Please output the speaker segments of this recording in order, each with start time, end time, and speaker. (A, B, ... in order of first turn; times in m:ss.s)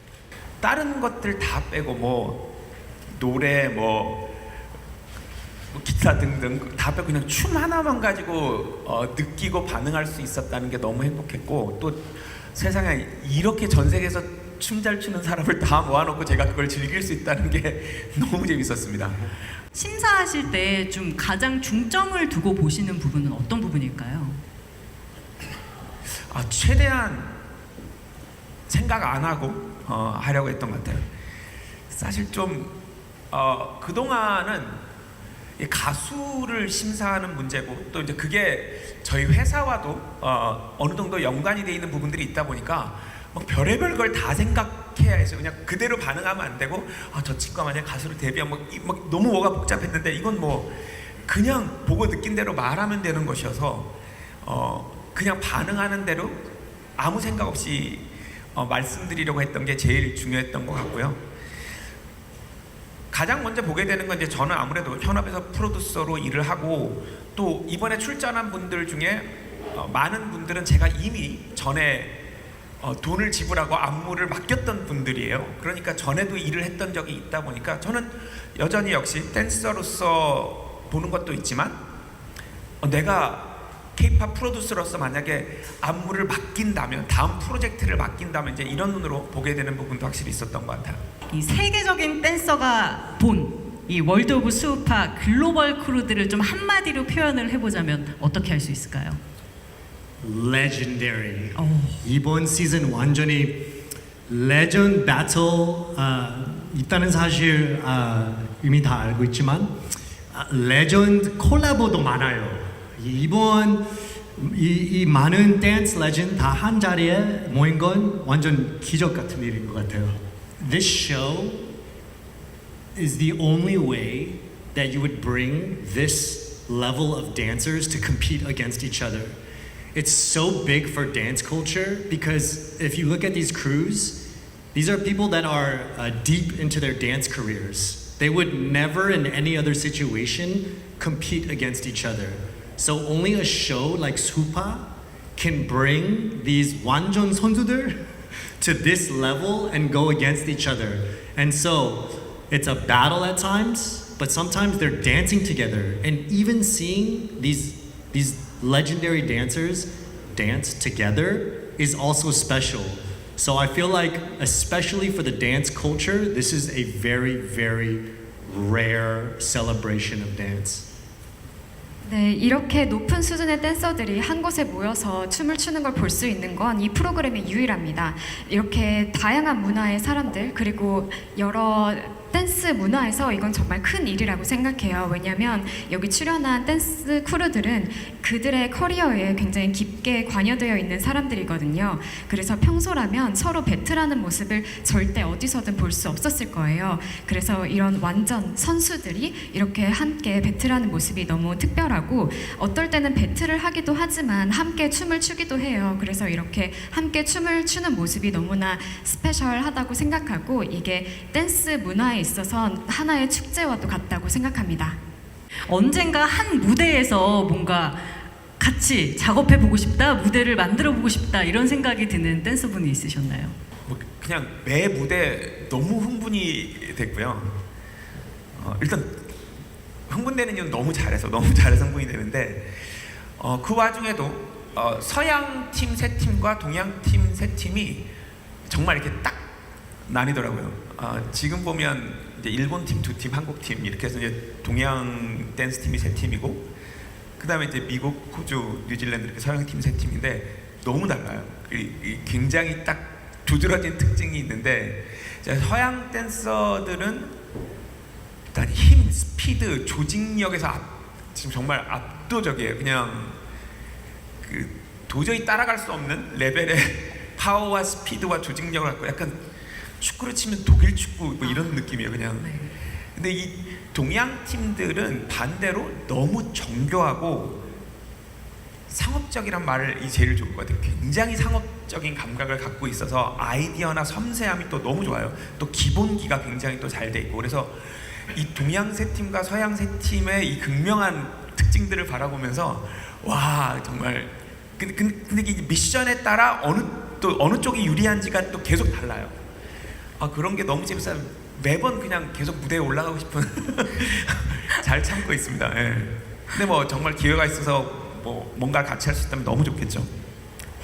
0:00.6-0:02.5 A
0:03.1-0:04.3 A
0:05.7-0:19.3 A
0:19.7-0:24.4 B
0:26.3-0:27.4 A
0:28.7-0:31.0 A
0:31.9-0:32.8 A
0:33.3-0:34.8 A
0:35.6-0:53.9 A
0:54.4-0:56.4 A
0:57.0-1:01.2 A
1:03.1-1:12.2 A
1:12.8-1:21.8 A
1:22.8-1:31.0 A
1:31.3-1:39.2 B
1:40.2-1:43.6 C
1:41.6-1:42.0 B
1:44.3-1:49.7 C
1:50.3-1:53.8 C
1:54.4-2:01.7 C
2:03.0-2:09.3 C
2:09.9-2:28.0 C
2:28.6-2:50.9 C
2:52.0-3:35.0 D
3:35.7-3:38.0 B
3:38.6-3:43.5 B
3:43.8-3:47.6 A
3:48.6-3:49.2 A
3:50.1-3:58.0 A
3:58.7-3:59.4 A
4:00.1-4:06.6 A
4:07.4-4:17.4 A
4:18.5-4:23.4 A
4:24.4-4:29.4 A
4:30.0-4:32.5 A
4:32.4-4:32.7 B
4:33.2-4:37.6 A
4:38.9-4:59.4 A
5:00.2-5:10.1 A